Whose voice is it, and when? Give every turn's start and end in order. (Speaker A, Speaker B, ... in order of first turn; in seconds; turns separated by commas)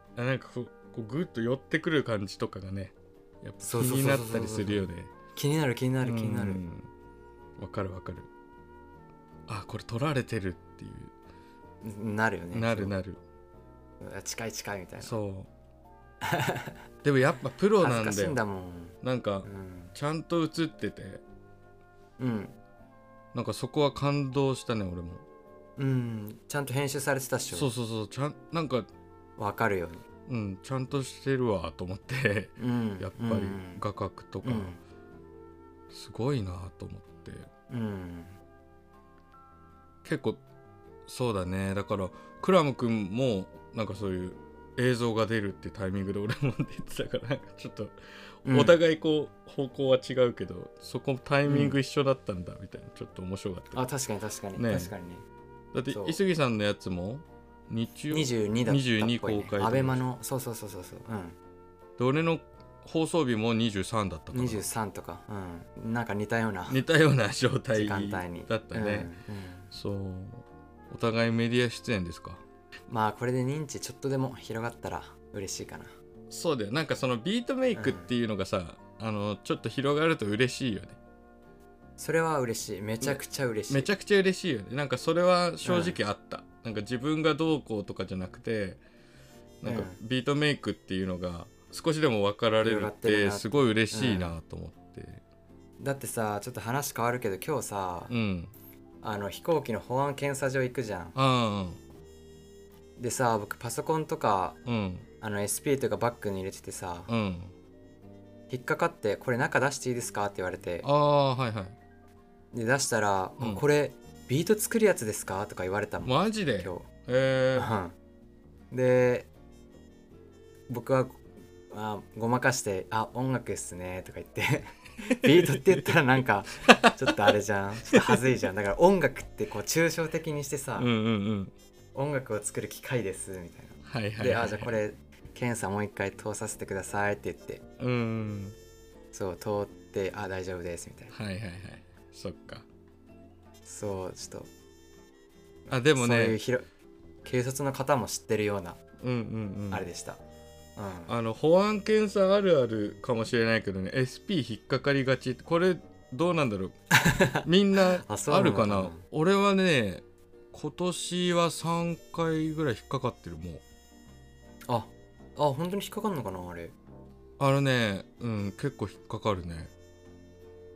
Speaker A: 0.1-5.1, Speaker B: 3.6-6.6, Speaker A: 6.0-6.9, Speaker A: 7.6-8.3, Speaker A: 9.5-11.1, Speaker B: 11.8-12.9, Speaker A: 12.5-13.2, Speaker B: 14.0-15.1, Speaker A: 15.0-15.5, Speaker B: 16.2-16.8, Speaker A: 17.0-18.4, Speaker B: 17.8-19.9, Speaker A: 19.0-21.2, Speaker B: 22.2-22.6, Speaker A: 23.3-25.2, Speaker B: 25.8-27.7, Speaker A: 27.5-28.9, Speaker B: 29.4-30.0, Speaker A: 30.3-34.8, Speaker B: 32.6-33.8, Speaker B: 34.4-34.8, Speaker A: 35.9-37.5, Speaker B: 37.7-38.4, Speaker A: 40.0-40.4, Speaker A: 41.1-53.8, Speaker B: 48.4-48.8, Speaker B: 51.5-51.8, Speaker B: 53.7-55.2, Speaker A: 54.5-54.9, Speaker A: 55.7-60.0, Speaker B: 55.9-56.2, Speaker B: 58.1-61.4, Speaker A: 62.0-64.6, Speaker B: 64.3-66.8, Speaker A: 66.7-69.1, Speaker B: 67.7-69.7, Speaker A: 69.7-72.4, Speaker B: 72.9-75.9, Speaker A: 76.3-81.0, Speaker B: 77.7-78.1, Speaker B: 82.0-83.9, Speaker A: 83.0-88.8, Speaker B: 85.6-86.0, Speaker A: 89.6-95.2, Speaker B: 89.6-90.0, Speaker B: 92.6-94.3, Speaker B: 95.8-98.1, Speaker A: 98.1-98.5, Speaker B: 99.0-101.1, Speaker A: 101.1-101.8, Speaker B: 103.0-104.6, Speaker A: 104.7-105.1, Speaker B: 105.2-107.1, Speaker A: 107.1-107.5, Speaker B: 108.5-110.9, Speaker A: 110.8-111.8, Speaker B: 112.5-116.9, Speaker A: 116.0-117.7, Speaker B: 117.5-118.0, Speaker B: 118.7-119.3, Speaker B: 120.7-130.9, Speaker A: 125.0-125.9, Speaker A: 126.6-127.3, Speaker A: 127.9-128.2, Speaker A: 130.8-131.5, Speaker B: 131.9-137.6, Speaker A: 133.8-134.8, Speaker A: 137.8-138.6, Speaker B: 139.1-141.1, Speaker A: 141.1-142.6, Speaker B: 143.6-144.5, Speaker A: 145.7-146.4, Speaker B: 145.9-146.7, Speaker B: 147.2-148.8, Speaker A: 149.0-149.9, Speaker B: 149.7-150.2, Speaker B: 150.8-151.1, Speaker A: 151.1-156.8, Speaker B: 156.9-159.0, Speaker A: 157.4-163.6, Speaker B: 164.7-166.7, Speaker A: 167.4-169.7